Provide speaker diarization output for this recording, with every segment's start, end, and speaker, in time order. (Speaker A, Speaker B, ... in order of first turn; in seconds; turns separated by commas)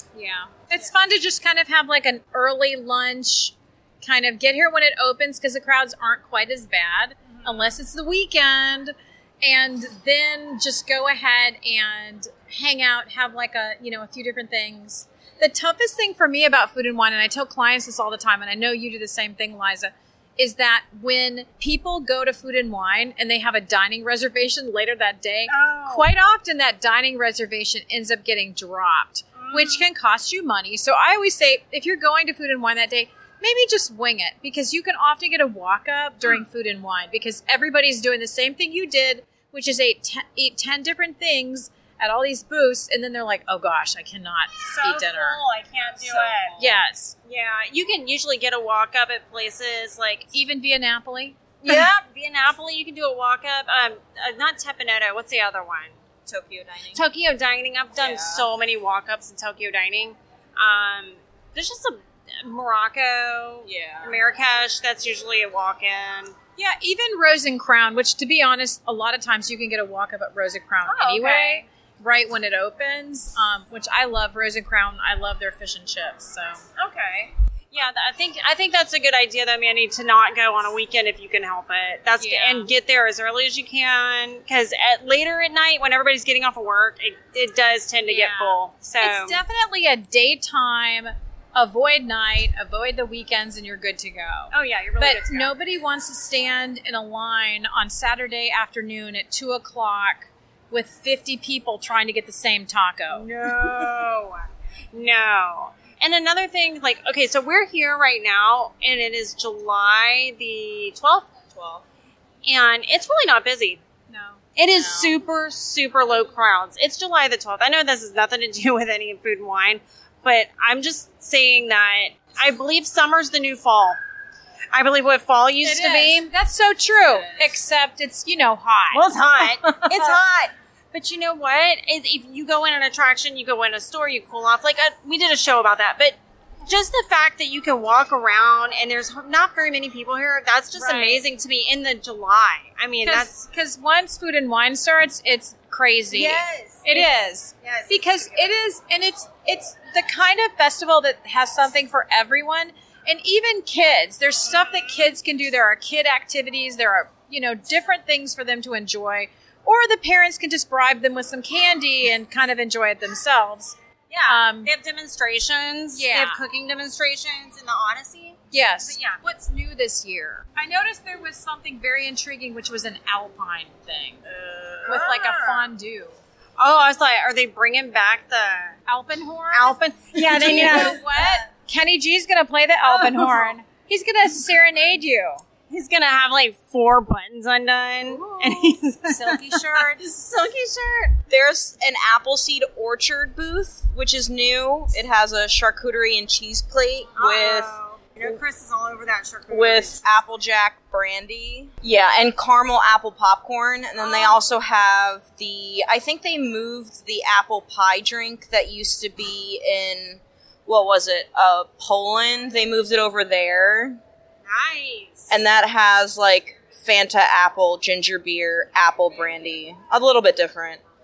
Speaker A: 0.1-45.4, Speaker B: 7.4-7.7, Speaker B: 25.5-26.1, Speaker B: 29.4-29.9, Speaker B: 44.7-46.6, Speaker C: 46.0-46.8, Speaker A: 46.6-47.1, Speaker B: 47.3-50.3, Speaker A: 50.3-51.4, Speaker B: 51.6-56.0, Speaker C: 56.3-57.0, Speaker B: 56.9-66.3, Speaker C: 58.0-58.5, Speaker C: 63.6-64.1, Speaker A: 66.6-76.6, Speaker B: 70.9-71.7, Speaker B: 76.8-89.4, Speaker A: 82.2-82.7, Speaker A: 88.1-103.3, Speaker B: 94.5-95.5, Speaker B: 103.1-111.3, Speaker C: 111.5-111.9, Speaker B: 112.4-113.8, Speaker A: 114.1-114.4, Speaker B: 114.6-124.0, Speaker C: 114.7-115.2, Speaker B: 124.7-126.3, Speaker A: 125.6-129.1, Speaker B: 128.9-143.4, Speaker A: 129.6-130.2, Speaker A: 140.8-141.2, Speaker A: 143.0-163.8, Speaker B: 146.1-148.6, Speaker B: 154.5-155.1, Speaker B: 164.1-169.2, Speaker A: 164.3-164.7, Speaker A: 165.9-166.4, Speaker A: 168.5-174.2, Speaker C: 174.3-175.0, Speaker A: 174.8-176.2, Speaker B: 174.9-175.6, Speaker B: 176.6-178.8, Speaker A: 178.9-185.4, Speaker B: 179.5-181.1, Speaker C: 180.4-180.9, Speaker B: 182.8-183.6, Speaker B: 185.7-191.2, Speaker A: 188.3-190.1, Speaker C: 191.3-198.4, Speaker B: 197.2-200.1, Speaker C: 199.5-214.0, Speaker B: 204.0-204.4, Speaker B: 214.5-215.4, Speaker C: 215.3-220.8